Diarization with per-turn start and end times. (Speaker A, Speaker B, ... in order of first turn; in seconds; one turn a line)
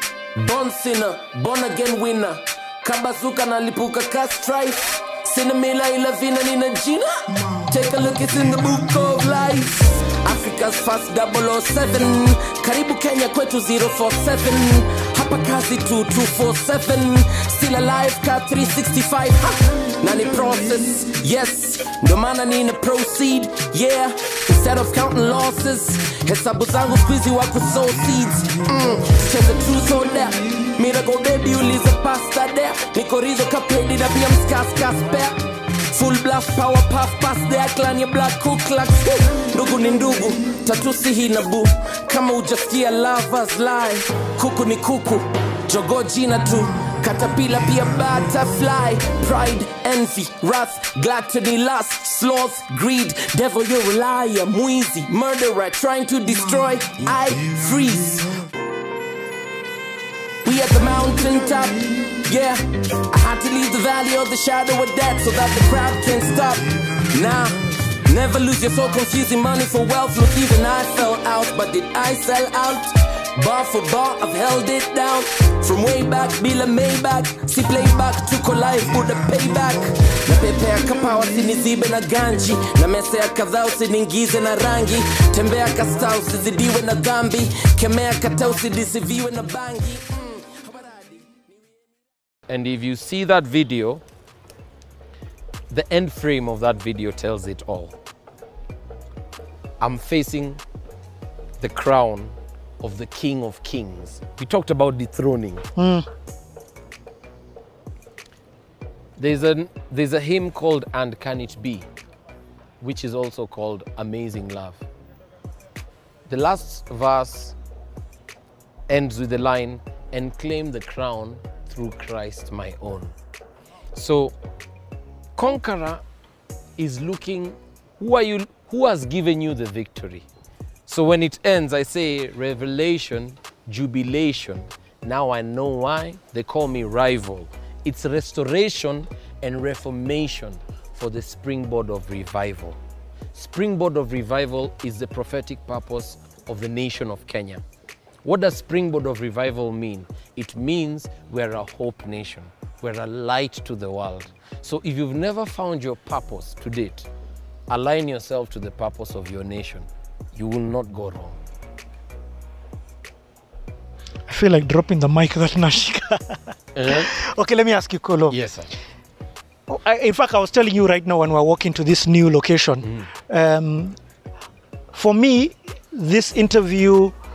Speaker A: 0.3-58.4
Speaker A: 60.4-91.6
Speaker B: 92.5-94.0
Speaker B: 95.7-98.0
Speaker B: 99.8-100.6
Speaker B: 101.6-105.7
Speaker C: 105.8-106.0
Speaker B: 109.2-111.8
Speaker B: 112.8-114.8
Speaker B: 116.3-117.5
Speaker B: 118.9-123.1
Speaker B: 123.9-124.3
Speaker B: 125.3-126.0
Speaker B: 126.8-130.2
Speaker B: 130.9-142.8
Speaker B: 143.3-147.6
Speaker B: 148.2-157.1
Speaker B: 157.7-161.4
Speaker C: 164.3-168.3
Speaker B: 166.7-167.1
Speaker B: 168.3-168.7
Speaker C: 169.7-173.9
Speaker C: 174.9-177.1